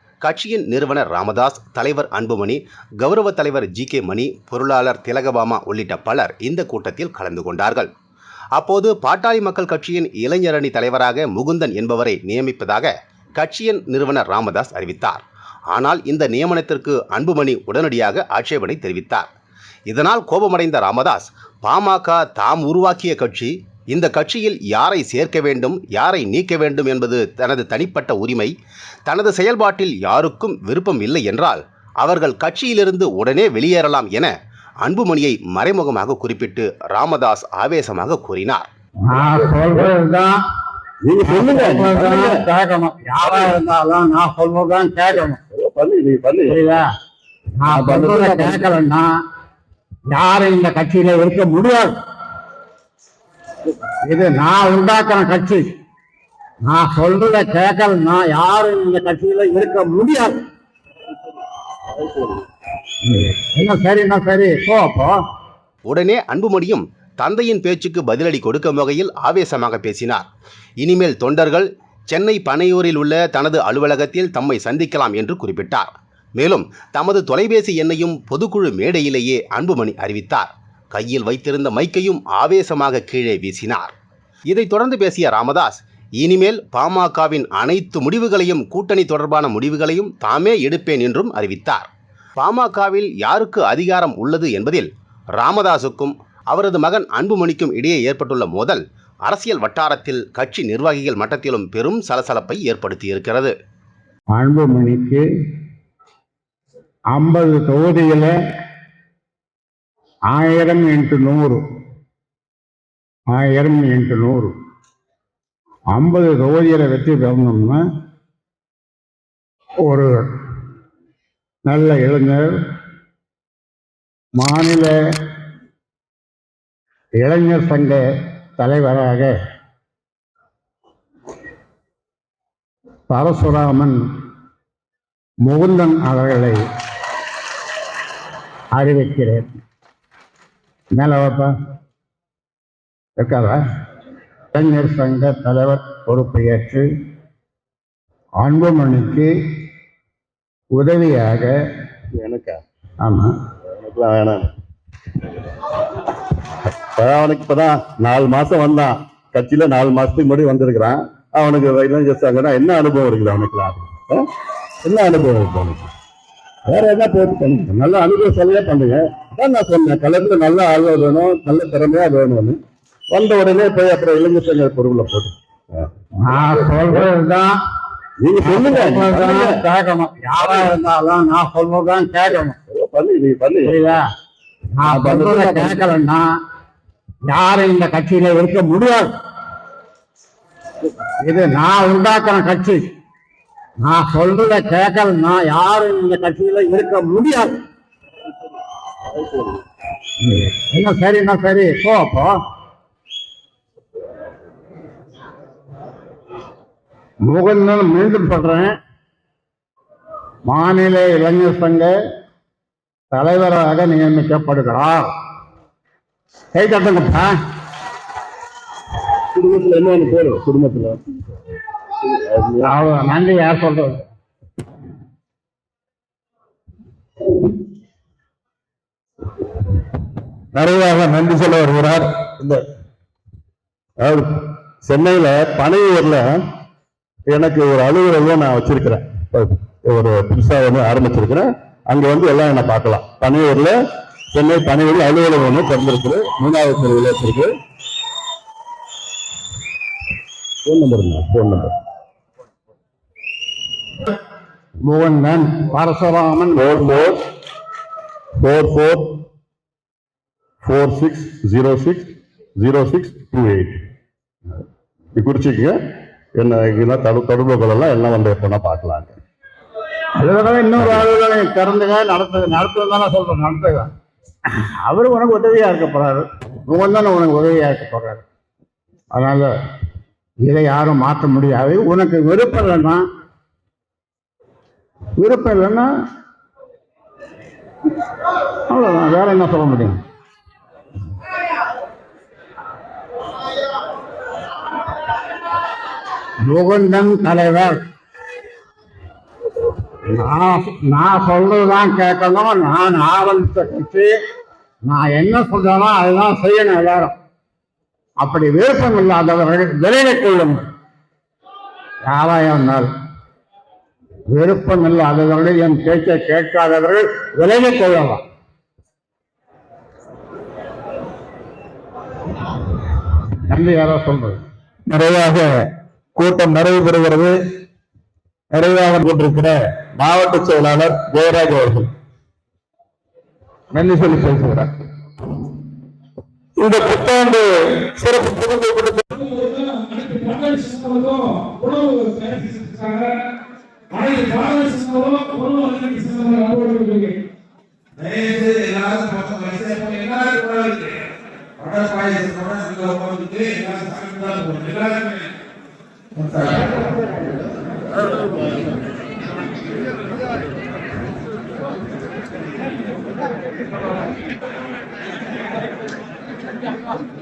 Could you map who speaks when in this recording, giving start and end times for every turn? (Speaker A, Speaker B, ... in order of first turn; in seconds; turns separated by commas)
Speaker A: 0.2-7.9, Speaker A: 8.6-19.3, Speaker A: 19.9-28.5, Speaker A: 29.1-34.3, Speaker A: 34.8-38.7, Speaker B: 39.1-40.4, Speaker C: 39.3-39.9, Speaker C: 41.0-42.5, Speaker B: 41.2-45.4, Speaker C: 45.5-46.8, Speaker B: 46.5-46.9, Speaker B: 47.6-49.1, Speaker C: 47.7-48.7, Speaker B: 50.1-51.9, Speaker B: 54.1-55.6, Speaker B: 56.7-60.4, Speaker C: 61.9-62.5, Speaker B: 63.1-65.2, Speaker A: 65.9-70.3, Speaker A: 70.8-83.9, Speaker A: 84.5-103.5, Speaker B: 104.3-105.2, Speaker B: 107.1-108.3, Speaker B: 110.3-111.6, Speaker B: 113.3-114.5, Speaker B: 115.9-117.8, Speaker B: 119.8-120.3, Speaker B: 121.7-122.5, Speaker B: 124.4-125.0, Speaker B: 127.2-128.0, Speaker B: 128.6-129.3, Speaker B: 133.1-134.0, Speaker B: 135.4-136.6, Speaker B: 138.7-139.5, Speaker B: 140.9-141.5, Speaker B: 143.2-143.6, Speaker B: 144.5-146.9, Speaker B: 148.4-149.3, Speaker B: 150.8-151.6, Speaker C: 152.2-152.6, Speaker B: 153.0-153.3, Speaker C: 153.7-154.5, Speaker C: 157.0-164.2, Speaker C: 164.8-165.9, Speaker C: 166.7-172.6, Speaker C: 173.1-177.1, Speaker B: 176.2-177.6, Speaker C: 178.2-179.6, Speaker B: 178.4-182.6, Speaker C: 180.4-180.7, Speaker C: 182.7-183.8, Speaker B: 183.7-184.0, Speaker B: 184.8-186.3, Speaker C: 184.8-185.9, Speaker B: 187.2-189.1, Speaker B: 191.2-192.8, Speaker B: 193.8-197.6, Speaker C: 199.1-199.6, Speaker B: 200.2-202.3, Speaker B: 207.2-208.7, Speaker B: 210.5-211.9, Speaker B: 213.1-215.1, Speaker B: 216.5-217.3, Speaker C: 219.3-221.0, Speaker C: 222.0-222.7, Speaker B: 222.6-224.0, Speaker C: 230.6-232.6, Speaker C: 234.0-236.3, Speaker C: 237.3-243.8, Speaker C: 244.3-247.5, Speaker C: 250.7-251.8, Speaker B: 254.8-256.9, Speaker C: 256.5-257.2, Speaker C: 258.4-259.2, Speaker C: 260.6-263.8, Speaker C: 265.2-265.8, Speaker C: 266.4-269.2, Speaker B: 270.2-273.9, Speaker C: 270.8-271.1, Speaker B: 274.5-278.2, Speaker B: 279.1-279.5, Speaker B: 280.4-283.0, Speaker B: 285.2-285.9, Speaker B: 288.7-290.0, Speaker B: 296.4-297.8, Speaker B: 300.1-304.1, Speaker B: 304.9-307.1, Speaker B: 308.2-310.6, Speaker B: 312.1-312.9, Speaker B: 314.3-318.2, Speaker B: 323.5-324.4, Speaker C: 324.9-325.5, Speaker C: 326.2-327.4, Speaker C: 328.6-331.9, Speaker C: 333.7-334.7, Speaker C: 336.6-339.1, Speaker D: 339.2-343.2, Speaker D: 343.9-347.2, Speaker D: 348.0-351.0, Speaker D: 351.6-355.3, Speaker D: 356.1-356.9